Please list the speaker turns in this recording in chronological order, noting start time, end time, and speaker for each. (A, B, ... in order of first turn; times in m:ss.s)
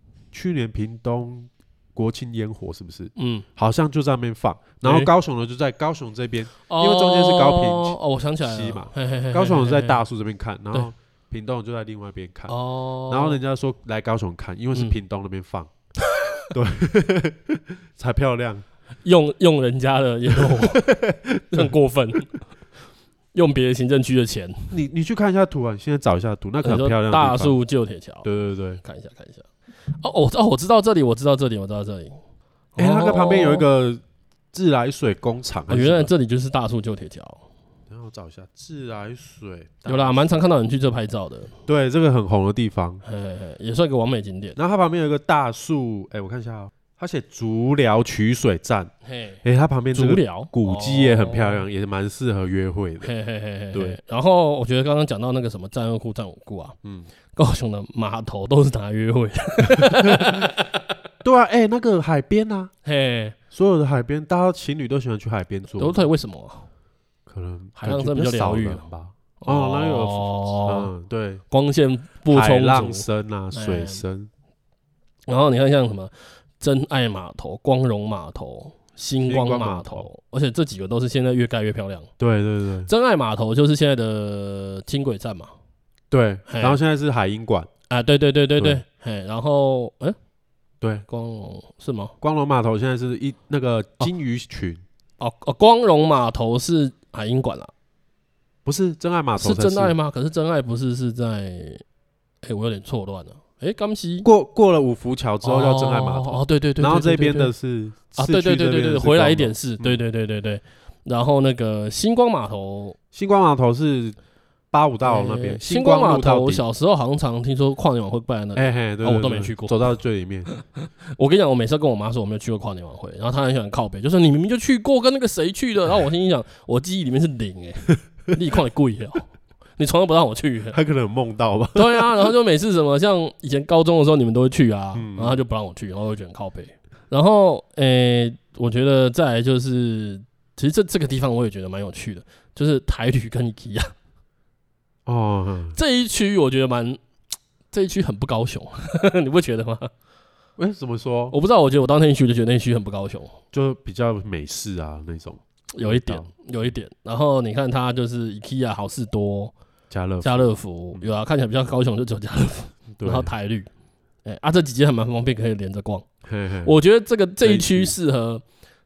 0:00.3-0:12.6 A
0:03.2-0:03.4 B
0:04.8-0:05.1 B
0:06.7-0:10.0 B
0:12.5-0:13.4 B
0:13.1-0:15.7 A
0:16.5-0:18.6 A
0:19.0-0:20.9 B
0:20.4-0:21.7 A
0:21.5-0:22.4 B
0:23.3-0:24.7 B
0:24.7-0:27.6 A
0:26.6-0:28.3 B
0:28.2-0:28.8 A
0:28.8-0:29.4 B
0:30.0-0:32.1 B
0:32.8-0:33.7 B
0:32.8-0:34.0 A
0:34.5-0:36.1 A
0:35.7-0:37.4 B
0:37.9-0:40.3 A
0:39.8-0:41.5 B
0:41.7-0:43.0 A
0:43.0-0:44.6 B
0:44.6-0:53.1 A
0:49.1-0:49.4 B
0:49.9-0:51.6 B
0:53.0-0:56.8 B
0:53.7-0:54.0 A
0:56.8-0:57.1 A
0:57.3-1:00.7 B
0:59.8-1:00.6 A
1:01.2-1:02.7 A
1:02.8-1:03.4 B
1:03.5-1:06.1 A
1:05.8-1:06.7 B
1:07.3-1:11.4 A
1:07.8-1:08.8 B
1:09.4-1:10.9 B
1:11.5-1:14.0 B
1:12.3-1:14.3 A
1:15.3-1:22.1 B
1:19.2-1:20.1 A
1:22.2-1:22.9 A
1:22.8-1:25.5 B
1:26.1-1:27.7 A
1:26.5-1:26.8 B
1:27.9-1:30.2 B
1:31.1-1:32.2 B
1:32.2-1:34.8 A
1:35.2-1:37.7 B
1:38.6-1:39.9 A
1:39.4-1:41.8 B
1:42.4-1:44.3 B
1:44.2-1:50.0 A
1:45.4-1:47.5 B
1:48.2-1:53.0 B
1:53.1-1:54.2 A
1:54.7-1:56.6 A
1:55.0-1:59.9 B
1:58.6-2:00.5 A
2:00.5-2:10.8 B
2:10.7-2:12.3 A
2:11.7-2:23.9 B
2:14.9-2:15.4 A
2:25.1-2:25.8 A
2:25.7-2:27.0 B
2:27.7-2:29.9 B
2:30.6-2:31.3 A
2:31.3-2:33.4 B
2:33.5-2:36.3 A
2:35.7-2:39.5 B
2:39.9-2:41.1 A
2:40.2-2:43.7 B
2:42.9-2:43.3 A
2:44.2-2:46.1 B
2:46.2-2:46.8 A
2:46.6-2:48.4 B
2:47.4-2:47.9 A